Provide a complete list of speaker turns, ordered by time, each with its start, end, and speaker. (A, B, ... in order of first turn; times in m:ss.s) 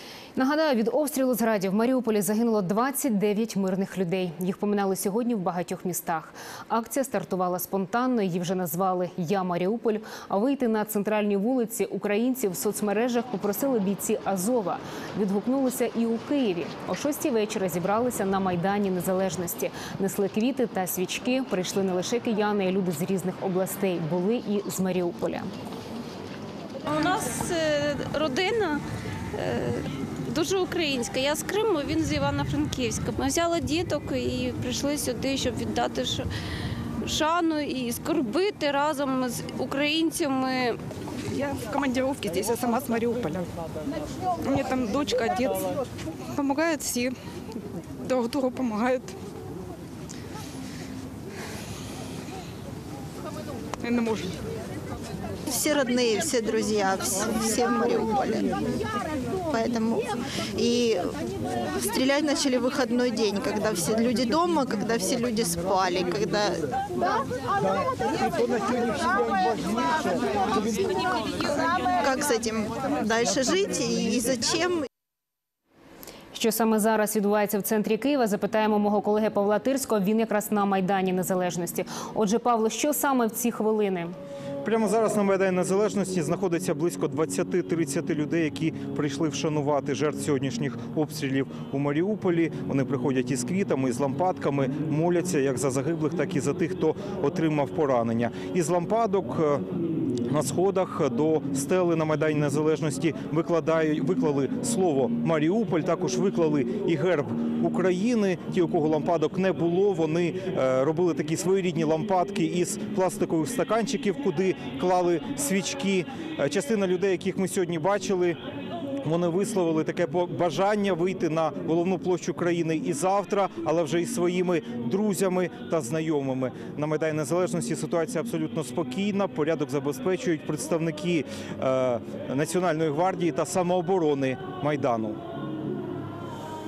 0:00.4-0:25.5 A
0:26.8-0:28.8 B
0:29.3-0:36.3 B
0:37.0-0:40.8 B
0:41.2-0:43.5 C
0:44.4-0:45.8 C
0:46.3-0:47.1 C
0:48.0-0:49.2 C
0:53.8-0:54.4 C
0:55.5-0:58.5 D
0:59.4-1:01.1 D
1:01.7-1:06.7 D
1:08.7-1:09.0 D
1:10.7-1:14.9 D
1:16.3-1:24.1 A
1:24.6-1:39.6 E
1:40.3-1:58.4 E
1:59.0-2:15.2 E